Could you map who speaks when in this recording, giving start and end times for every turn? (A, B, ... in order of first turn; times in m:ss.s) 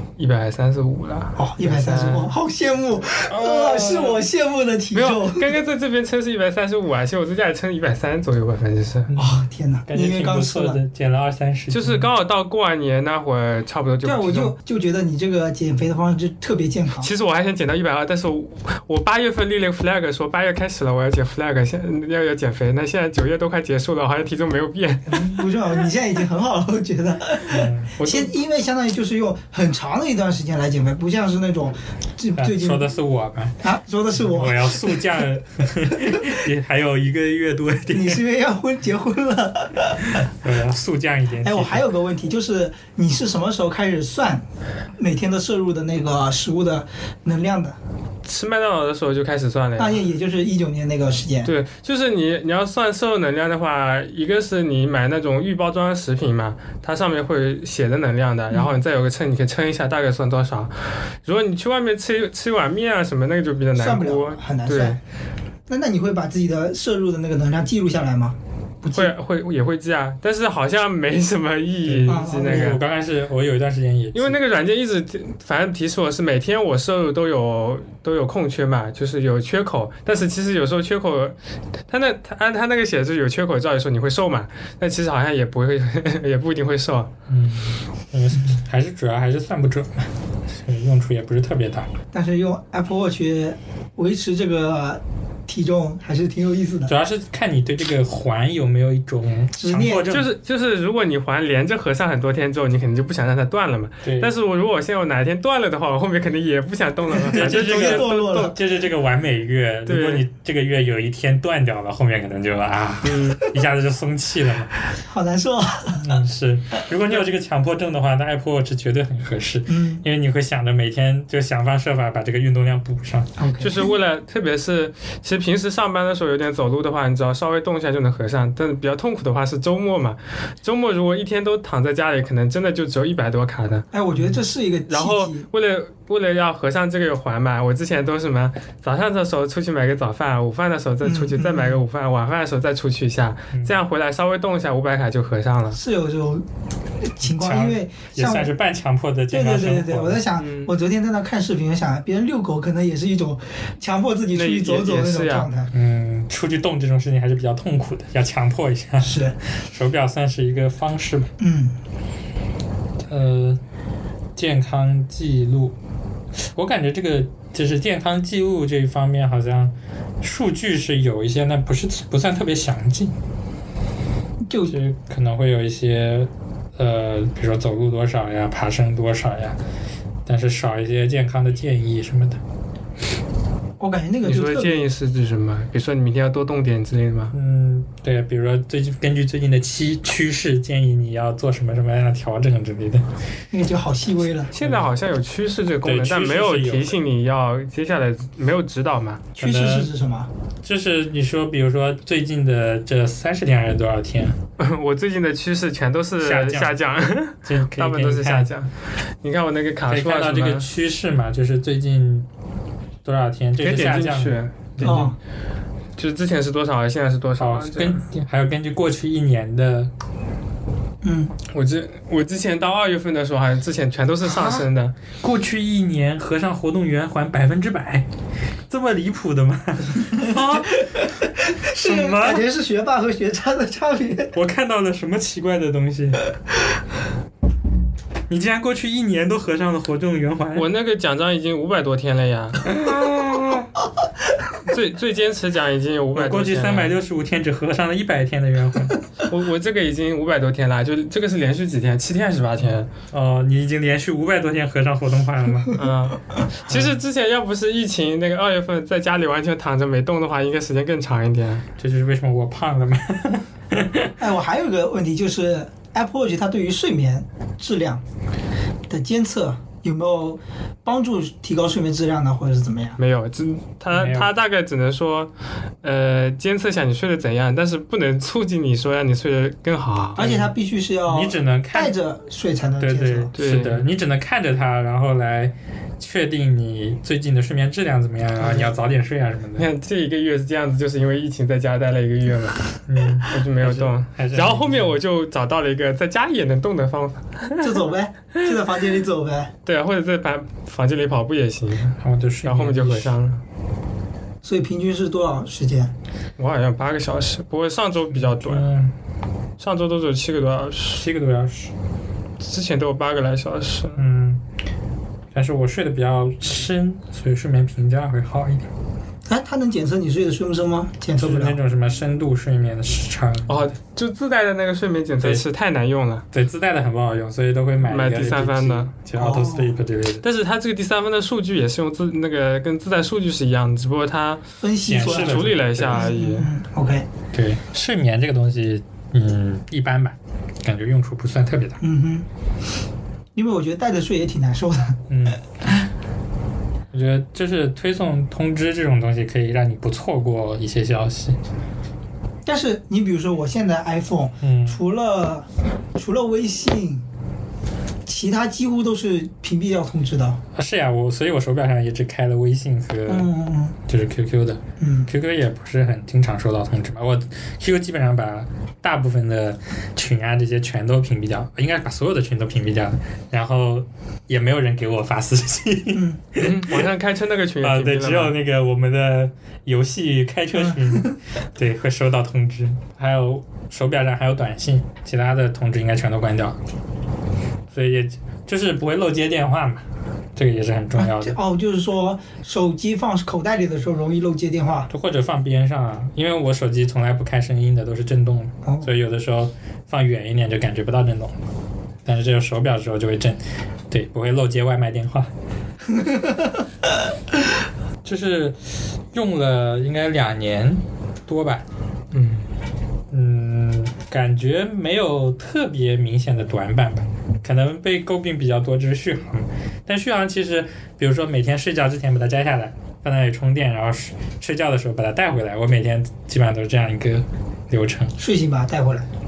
0:00.2-0:02.3 A
0:01.4-0:05.5 B
0:03.3-0:04.2 A
0:04.9-0:09.1 A
0:09.1-0:12.1 C
0:09.2-0:10.8 B
0:11.7-0:14.5 A
0:14.0-0:17.1 B
0:17.0-0:25.5 A
0:25.1-0:32.8 B
0:27.5-0:27.9 C
0:28.0-0:28.3 A
0:32.4-0:33.6 C
0:33.6-0:35.0 B
0:34.2-0:38.2 C
0:36.1-0:36.4 B
0:37.9-0:40.2 B
0:40.4-0:41.9 C
0:41.4-0:44.4 B
0:45.0-0:47.8 B
0:48.2-0:50.0 A
0:49.8-0:51.5 B
0:51.4-1:05.0 A
1:03.7-1:05.0 B
1:05.7-1:09.1 B
1:08.9-1:12.8 A
1:11.8-1:14.4 C
1:12.0-1:12.8 B
1:14.1-1:21.3 A
1:21.9-1:27.1 A
1:27.3-1:31.9 C
1:32.1-1:36.9 B
1:36.9-1:40.3 C
1:39.5-1:40.1 B
1:40.1-1:48.5 A
1:44.0-1:44.3 C
1:47.1-1:48.6 B
1:47.3-1:54.7 C
1:49.9-1:50.2 A
1:53.0-1:53.4 A
1:54.9-1:56.1 B
1:55.9-2:03.3 C
1:59.7-2:00.0 B
2:03.4-2:03.9 B
2:03.6-2:13.9 A
2:13.9-2:15.4 B
2:14.9-2:25.8 A
2:21.0-2:21.8 B
2:25.7-2:26.4 B
2:27.0-2:28.5 B
2:27.2-2:30.2 C
2:29.3-2:35.7 B
2:30.4-2:30.7 A
2:34.3-2:35.5 A
2:35.7-2:41.3 C
2:39.0-2:39.4 B
2:41.4-2:41.8 B
2:43.1-2:43.6 C
2:44.4-2:45.7 C
2:46.4-2:53.1 C
2:54.4-2:54.7 B
2:54.7-2:59.6 C
3:00.2-3:02.4 C
3:03.8-3:04.8 B
3:04.2-3:07.3 A
3:07.3-3:13.1 C
3:13.5-3:14.5 B
3:14.5-3:19.3 A
3:15.8-3:16.9 C
3:19.4-3:20.3 B
3:19.4-3:19.9 C
3:20.6-3:24.4 C
3:24.6-3:28.7 A
3:26.2-3:26.8 C
3:27.4-3:28.5 C
3:29.2-3:30.6 A
3:29.9-3:32.3 C
3:33.0-3:35.1 C
3:33.6-3:35.1 A
3:34.8-3:35.2 B
3:36.0-3:38.0 A
3:37.4-3:39.9 C
3:41.0-3:41.3 B
3:41.5-3:44.9 A
3:44.3-3:48.0 C
3:48.7-3:50.9 C
3:50.8-3:54.3 B
3:51.7-3:52.4 C
3:54.3-3:56.2 C
3:58.3-4:00.7 C
4:00.6-4:03.5 A
4:02.7-4:03.5 C
4:04.6-4:07.0 A
4:06.1-4:09.0 C
4:09.3-4:12.9 A
4:13.1-4:15.8 C
4:15.7-4:21.6 A
4:21.8-4:24.1 C
4:24.2-4:28.0 B
4:28.9-4:33.0 B
4:33.0-4:35.3 A
4:33.9-4:34.3 C
4:35.8-4:40.2 A
4:40.2-4:43.3 B
4:40.2-4:40.5 C
4:41.1-4:41.9 C
4:42.8-4:49.7 C
4:43.4-4:43.8 A
4:49.6-4:52.6 A
4:52.9-4:55.0 C
4:53.2-4:57.8 A
4:57.6-4:59.5 B
4:59.6-5:03.4 A
5:02.0-5:03.1 C
5:04.4-5:05.9 B
5:06.4-5:08.6 A
5:08.1-5:08.9 C
5:09.6-5:11.0 A
5:10.9-5:11.7 C
5:12.4-5:14.0 A
5:14.0-5:14.4 C
5:15.3-5:18.7 C
5:19.2-5:21.6 B
5:21.2-5:23.7 C
5:23.5-5:26.2 A
5:26.3-5:30.2 C
5:27.8-5:28.9 A
5:29.2-5:29.7 B
5:30.2-5:34.4 A
5:34.6-5:37.1 B
5:34.8-5:36.1 C
5:35.0-5:36.5 A
5:37.3-5:41.8 C
5:41.8-5:42.2 B
5:43.3-5:45.0 B
5:45.1-5:45.4 C
5:46.9-5:51.4 C
5:52.4-5:57.0 B
5:54.4-5:54.8 C
5:58.0-6:00.4 B
6:00.5-6:03.3 C
6:03.1-6:03.7 B
6:03.8-6:16.8 C
6:04.8-6:05.1 B
6:15.9-6:16.2 B
6:16.4-6:18.3 A
6:17.6-6:26.6 C
6:20.6-6:21.0 B
6:27.7-6:29.8 C
6:30.4-6:31.4 C
6:31.0-6:34.9 B
6:34.9-6:41.4 C
6:42.0-6:45.3 C
6:45.9-6:46.5 B
6:48.0-6:51.6 C
6:52.1-6:52.4 A
6:53.1-7:08.2 C
7:08.2-7:09.1 B